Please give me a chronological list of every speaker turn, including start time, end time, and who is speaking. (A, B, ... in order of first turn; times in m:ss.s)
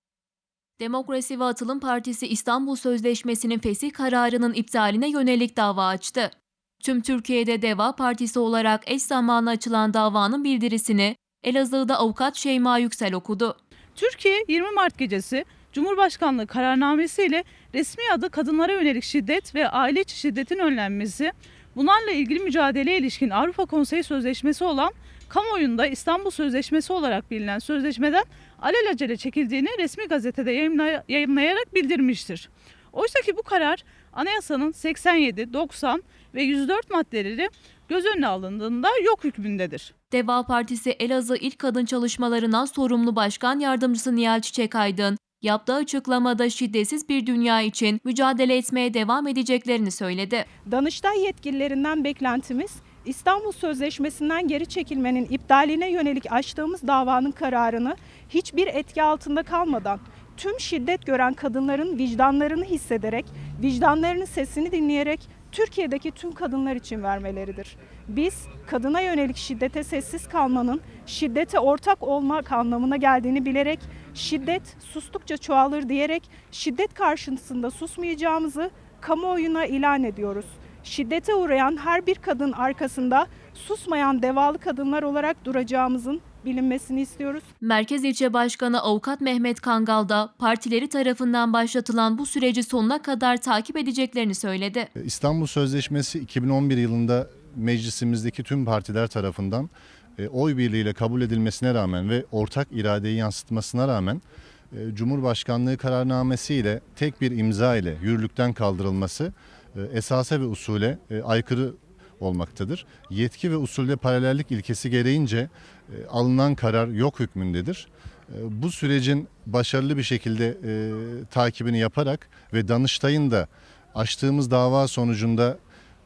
0:00.8-0:13.6 A
0:14.0-0:39.9 B
0:40.1-0:50.4 A
0:50.6-1:27.5 C
1:27.6-1:34.9 A
1:35.0-2:05.6 D